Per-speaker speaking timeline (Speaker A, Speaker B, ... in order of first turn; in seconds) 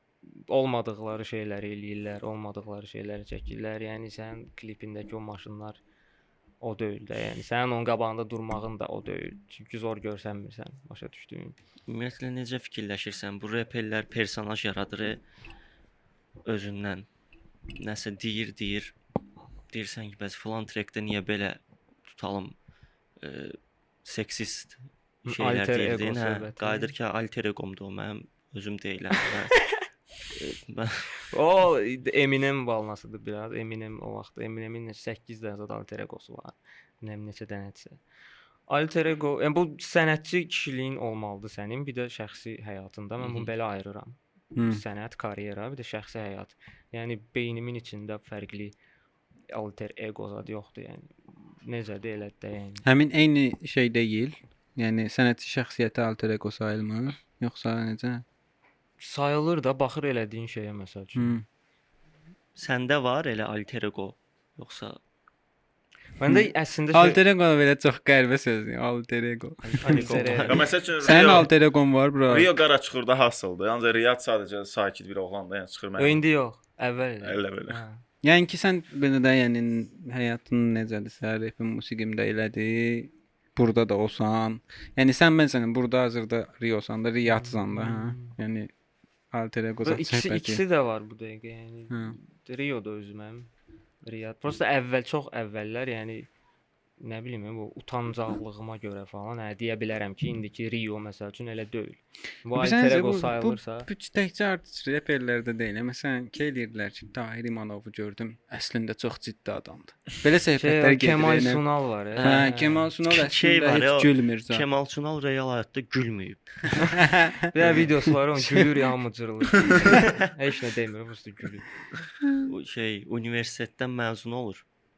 Speaker A: 0.2-5.8, 6.6-11.5, 25.2-26.9, 31.3-38.0, 38.7-48.8, 49.5-52.8, 59.0-61.4, 66.2-67.2, 69.7-70.7, 76.0-78.0, 87.2-88.3, 89.8-93.5, 94.0-96.3, 97.0-103.9, 110.6-112.9, 117.5-121.7
Speaker B: 11.9-15.2, 16.4-17.1, 17.7-18.9, 19.7-22.5, 23.2-29.7, 30.3-31.1, 43.2-43.5, 62.5-65.0, 69.8-70.7, 112.2-116.9, 122.4-124.6
Speaker C: 44.5-44.8, 52.8-58.2, 61.1-61.4, 66.3-72.5, 78.2-88.7, 89.3-90.6, 91.9-92.2, 102.5-111.6, 112.2-114.7, 117.0-118.8
Speaker D: 70.5-71.5, 72.2-76.2, 77.2-77.8